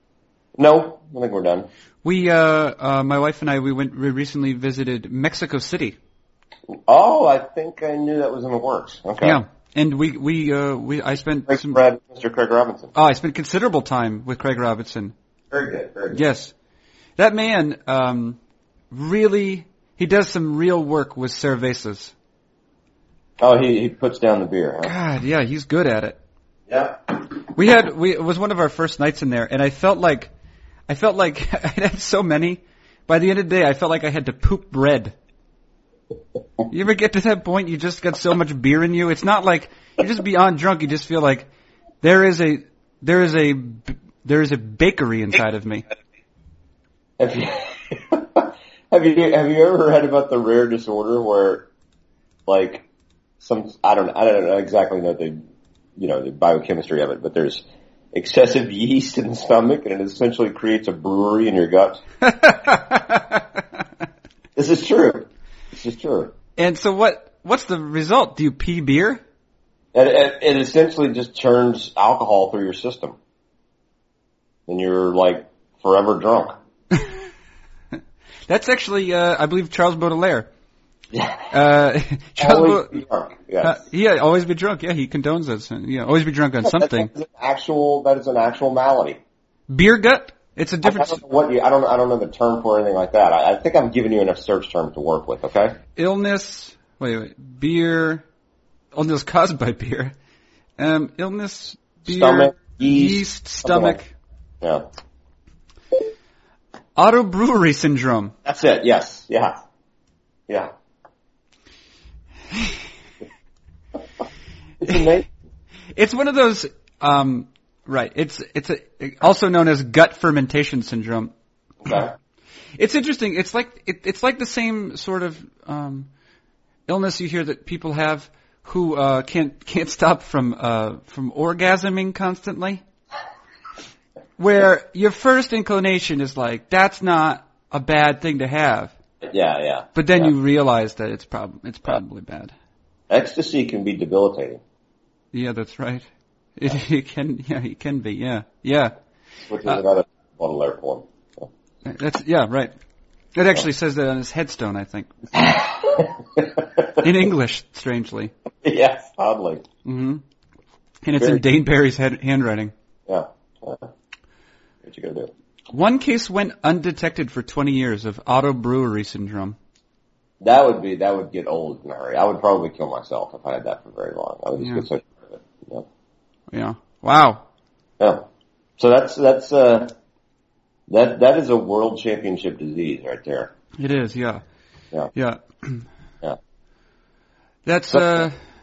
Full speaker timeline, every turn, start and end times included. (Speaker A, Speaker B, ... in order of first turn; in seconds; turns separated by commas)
Speaker A: 0.6-1.7, Speaker B: 2.0-6.0, Speaker A: 6.7-9.4, Speaker B: 9.2-11.8, Speaker A: 11.5-12.9, Speaker B: 12.9-15.1, Speaker A: 15.5-16.2, Speaker B: 16.1-16.5, Speaker B: 17.2-18.4, Speaker B: 18.9-22.1, Speaker A: 23.4-24.9, Speaker B: 24.8-26.2, Speaker A: 26.7-27.0, Speaker B: 27.4-30.3, Speaker B: 30.9-35.1, Speaker B: 36.7-41.5, Speaker B: 42.0-45.9, Speaker A: 47.2-51.7, Speaker A: 52.5-52.9, Speaker A: 53.4-55.4, Speaker A: 56.0-62.0, Speaker B: 62.2-63.4, Speaker A: 64.6-66.3, Speaker B: 66.6-69.2, Speaker A: 69.9-73.2, Speaker A: 74.7-76.5, Speaker B: 78.5-80.5, Speaker A: 81.1-81.5, Speaker B: 81.5-83.0, Speaker A: 82.4-83.8, Speaker B: 83.6-87.1, Speaker A: 86.6-89.2, Speaker B: 89.7-91.2, Speaker A: 90.8-95.8, Speaker B: 96.0-98.2, Speaker B: 98.9-100.1, Speaker B: 100.8-104.1, Speaker A: 102.1-104.0, Speaker B: 107.0-108.3, Speaker A: 108.5-109.6, Speaker A: 110.5-110.7, Speaker A: 114.8-115.3, Speaker B: 116.0-121.3, Speaker A: 121.8-122.1, Speaker B: 122.8-126.1, Speaker B: 126.9-132.8, Speaker B: 134.4-138.9, Speaker A: 139.2-140.3, Speaker B: 139.9-142.5, Speaker A: 143.1-144.6, Speaker B: 145.3-148.9, Speaker A: 149.5-151.5, Speaker B: 151.8-152.7, Speaker B: 153.3-155.3, Speaker A: 155.3-156.9, Speaker B: 157.0-158.3, Speaker A: 158.6-159.7, Speaker B: 159.8-160.2, Speaker B: 161.0-162.7, Speaker A: 163.1-163.9, Speaker A: 164.8-165.3, Speaker B: 165.7-169.6, Speaker A: 170.4-175.9, Speaker B: 176.5-177.4, Speaker A: 178.0-178.3, Speaker A: 178.8-179.9, Speaker A: 180.9-183.5, Speaker B: 183.8-184.4, Speaker B: 185.1-185.8, Speaker B: 187.7-188.4